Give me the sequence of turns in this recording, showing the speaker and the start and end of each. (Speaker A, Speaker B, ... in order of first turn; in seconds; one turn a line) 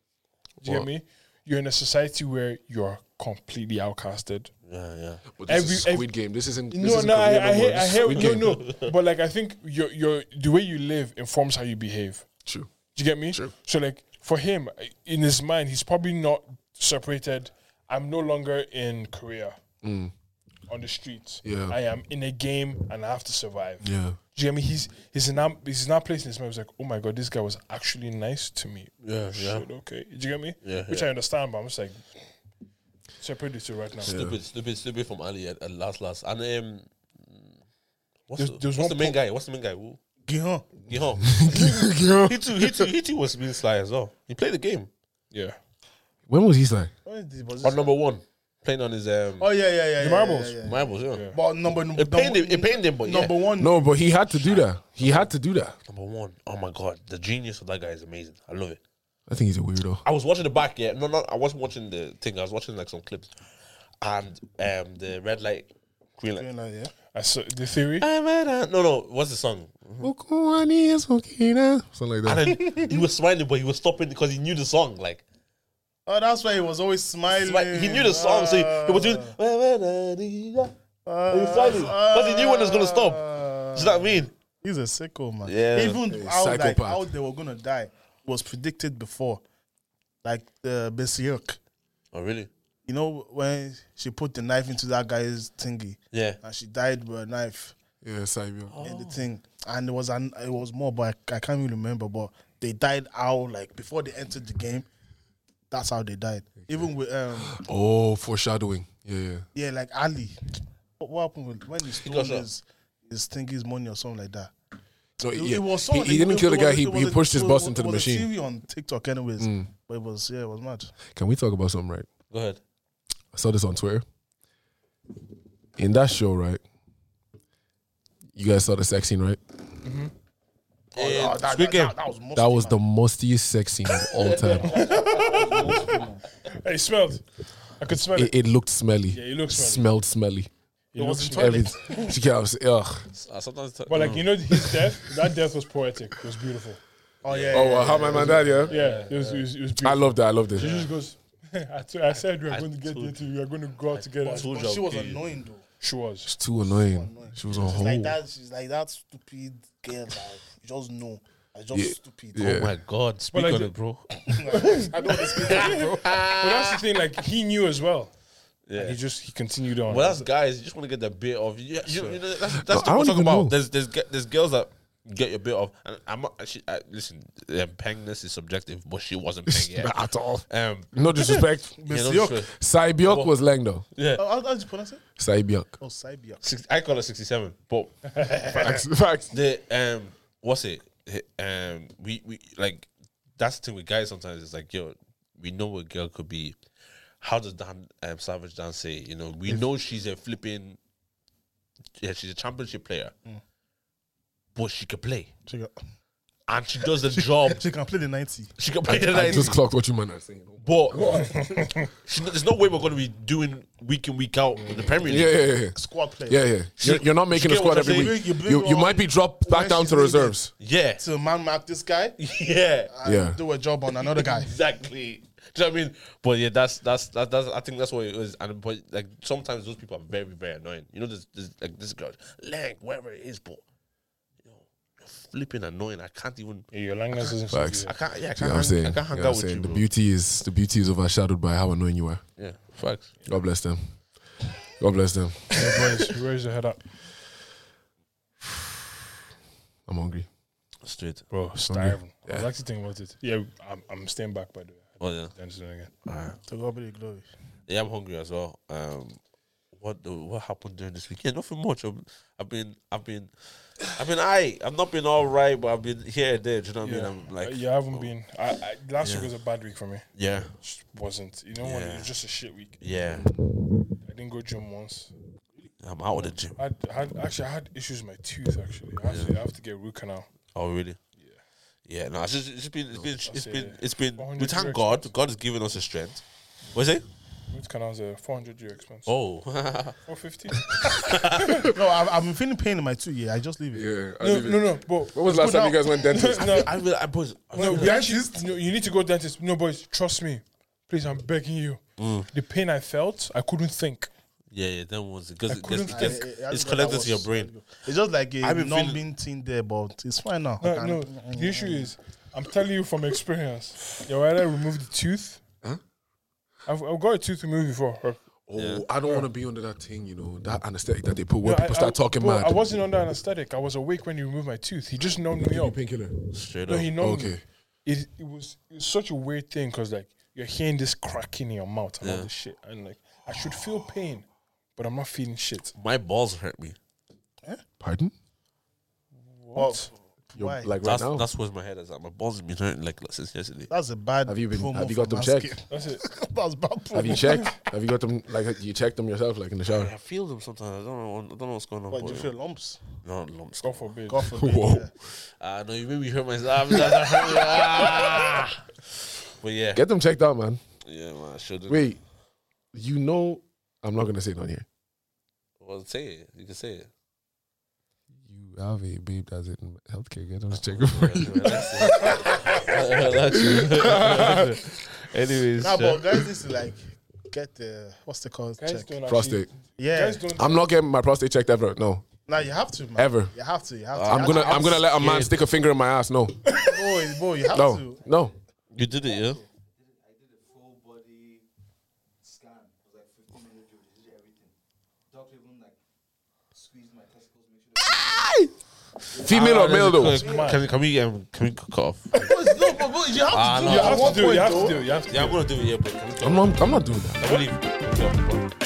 Speaker A: 0.6-4.5
Speaker B: 4.7-5.2
Speaker C: 5.3-8.5
Speaker A: 5.5-6.1
Speaker A: 6.7-12.3
Speaker B: 8.1-8.9
Speaker C: 12.4-12.7
Speaker A: 12.9-19.6
Speaker C: 19.8-20.1
Speaker A: 20.7-32.0
Speaker C: 21.4-21.8
Speaker C: 23.8-24.2
Speaker B: 29.0-29.7
Speaker B: 30.6-31.1
Speaker A: 33.2-34.1
Speaker B: 34.0-37.5
Speaker C: 34.1-34.4
Speaker B: 38.3-40.0
Speaker A: 38.4-39.2
Speaker D: 40.3-40.8
Speaker B: 40.9-44.9
Speaker C: 41.3-42.9
Speaker A: 45.3-45.6
Speaker C: 46.3-46.9
Speaker D: 47.0-47.9
Speaker B: 47.6-49.5
Speaker D: 49.4-54.0
Speaker A: 50.0-50.6
Speaker B: 50.6-51.3
Speaker A: 51.1-51.4
Speaker B: 51.9-53.5
Speaker C: 53.6-55.8
Speaker B: 54.4-55.3
Speaker B: 55.9-58.8
Speaker C: 59.3-60.0
Speaker B: 60.0-63.3
Speaker B: 64.0-66.5
Speaker D: 66.4-66.9
Speaker A: 67.1-68.1
Speaker B: 68.0-70.1
Speaker C: 70.0-72.5
Speaker B: 72.2-75.2
Speaker D: 72.5-73.0
Speaker D: 76.1-79.4
Speaker B: 77.3-80.7
Speaker D: 81.0-89.4
Speaker B: 81.3-84.3
Speaker B: 85.5-86.0
Speaker C: 86.1-87.1
Speaker D: 90.2-91.6
Speaker B: 92.1-92.5
Speaker D: 92.9-97.8
Speaker B: 96.1-96.4
Speaker C: 98.0-98.8
Speaker B: 98.7-99.2
Speaker D: 98.8-104.9
Speaker D: 105.7-107.6
Speaker C: 107.4-109.5
Speaker D: 109.5-110.4
Speaker D: 111.0-114.5
Speaker B: 112.0-112.5
Speaker C: 115.2-118.3
Speaker D: 115.3-120.9
Speaker C: 119.4-119.7
Speaker C: 121.1-122.1
Speaker B: 122.3-122.6
Speaker C: 123.3-124.0
Speaker C: 125.8-126.6
Speaker C: 128.4-129.4
Speaker A: 129.8-130.1
Speaker D: 130.9-132.8
Speaker B: 130.9-131.9
Speaker C: 132.3-134.8
Speaker B: 134.1-136.0
Speaker A: 134.7-135.8
Speaker E: 135.0-136.2
Speaker A: 136.4-137.2
Speaker A: 137.8-138.3
Speaker C: 138.1-143.1
Speaker A: 139.1-139.9
Speaker A: 140.9-142.1
Speaker D: 141.0-141.8
Speaker B: 143.1-144.9
Speaker A: 143.9-146.8
Speaker D: 147.2-148.8
Speaker B: 147.3-149.5
Speaker C: 147.5-148.7
Speaker A: 148.7-154.5
Speaker C: 149.8-150.7
Speaker B: 150.6-150.9
Speaker B: 152.5-153.2
Speaker B: 153.9-155.2
Speaker D: 154.2-155.6
Speaker A: 155.8-156.3
Speaker C: 156.3-158.2
Speaker D: 156.6-162.6
Speaker C: 161.7-162.7
Speaker B: 162.4-166.8
Speaker A: 163.3-163.7
Speaker D: 164.3-166.1
Speaker A: 164.5-168.1
Speaker B: 168.7-169.0
Speaker A: 168.8-170.1
Speaker B: 169.9-179.9
Speaker D: 169.9-170.3
Speaker C: 172.5-173.6
Speaker C: 179.5-181.8
Speaker B: 180.5-183.3
Speaker D: 181.8-182.5
Speaker C: 182.5-183.8
Speaker B: 183.9-184.2
Speaker D: 184.2-185.0
Speaker C: 185.2-185.7
Speaker D: 185.8-186.4
Speaker B: 186.4-196.6
Speaker C: 188.5-189.3
Speaker B: 197.2-200.8
Speaker B: 202.0-203.1
Speaker B: 204.6-205.3
Speaker D: 205.5-205.7
Speaker B: 206.5-207.7
Speaker D: 207.2-208.5
Speaker B: 208.6-209.6
Speaker C: 208.9-211.4
Speaker D: 209.2-209.4
Speaker B: 210.6-211.5
Speaker A: 211.1-211.9
Speaker B: 212.1-215.4
Speaker C: 215.1-215.8
Speaker D: 215.7-216.4
Speaker C: 216.3-220.5
Speaker B: 216.8-218.2
Speaker D: 217.7-220.4
Speaker B: 220.6-221.0
Speaker D: 221.0-222.2
Speaker B: 222.2-222.9
Speaker D: 222.9-224.5
Speaker C: 223.1-223.4
Speaker B: 223.9-233.6
Speaker B: 234.4-236.7
Speaker A: 236.7-238.0
Speaker C: 237.5-242.2
Speaker B: 237.8-239.8
Speaker B: 242.4-243.1
Speaker C: 243.3-243.8
Speaker C: 244.8-245.8
Speaker A: 245.5-246.8
Speaker C: 249.9-250.3
Speaker B: 250.8-251.3
Speaker A: 251.3-255.9
Speaker C: 251.6-252.5
Speaker B: 255.0-255.3
Speaker B: 256.1-256.4
Speaker D: 256.5-257.3
Speaker B: 257.7-259.2
Speaker B: 259.8-268.1
Speaker A: 266.8-272.8
Speaker B: 270.1-270.5
Speaker B: 271.6-272.1
Speaker B: 272.8-273.3
Speaker A: 274.0-275.1
Speaker B: 275.8-276.6
Speaker A: 276.6-280.3
Speaker B: 279.1-279.3
Speaker B: 280.5-281.0
Speaker B: 281.9-286.2
Speaker A: 283.3-285.1
Speaker B: 286.7-287.0
Speaker A: 287.5-289.1
Speaker B: 289.1-290.0
Speaker A: 290.1-290.7
Speaker B: 290.9-291.6
Speaker D: 291.6-293.9
Speaker C: 293.7-296.7
Speaker A: 294.2-295.2
Speaker D: 295.2-296.5
Speaker A: 296.1-296.7
Speaker B: 296.5-298.0
Speaker D: 297.5-298.4
Speaker A: 297.6-304.1
Speaker B: 302.0-302.3
Speaker B: 304.5-307.7
Speaker A: 305.5-306.2
Speaker D: 305.9-311.9
Speaker B: 308.4-309.0
Speaker A: 310.6-315.4
Speaker A: 316.7-318.2
Speaker C: 318.5-322.6
Speaker B: 318.6-318.9
Speaker A: 321.4-325.8
Speaker C: 325.4-326.2
Speaker B: 326.3-326.9
Speaker A: 326.7-335.7
Speaker C: 327.0-327.4
Speaker B: 332.0-332.3
Speaker B: 335.8-336.8
Speaker C: 337.8-338.1
Speaker A: 339.3-339.9
Speaker D: 339.6-340.7
Speaker C: 340.4-341.3
Speaker B: 340.8-343.7
Speaker D: 343.7-347.5
Speaker C: 344.3-345.5
Speaker A: 345.7-346.0
Speaker C: 346.9-349.9
Speaker B: 349.7-352.3
Speaker D: 351.9-352.8
Speaker B: 353.0-353.9
Speaker A: 353.6-354.3
Speaker D: 354.1-354.9
Speaker C: 354.4-354.9
Speaker B: 355.4-358.6
Speaker B: 359.4-359.8
Speaker C: 359.8-360.6
Speaker B: 360.8-361.9
Speaker C: 361.7-362.0
Speaker C: 362.7-364.6
Speaker B: 365.6-366.9
Speaker C: 368.3-372.4
Speaker B: 370.7-376.1
Speaker D: 372.2-372.8
Speaker C: 373.2-374.6
Speaker D: 375.6-378.9
Speaker A: 378.6-380.6
Speaker C: 379.1-379.5
Speaker D: 379.8-380.3
Speaker C: 380.4-382.1
Speaker D: 382.3-384.8
Speaker C: 383.0-383.3
Speaker B: 383.9-385.4
Speaker C: 384.1-386.4
Speaker A: 386.5-386.7
Speaker D: 386.6-388.0
Speaker C: 387.5-388.3
Speaker E: 388.1-391.4
Speaker B: 388.7-389.4
Speaker E: 392.2-394.5
Speaker E: 395.1-395.8
Speaker E: 396.5-398.3
Speaker B: 397.8-398.5
Speaker E: 399.1-400.6
Speaker C: 399.2-400.2
Speaker B: 399.3-402.1
Speaker A: 400.0-400.6
Speaker D: 402.2-404.8
Speaker B: 403.3-404.5
Speaker A: 403.6-405.4
Speaker B: 405.1-406.6
Speaker C: 406.2-407.2
Speaker B: 407.2-408.5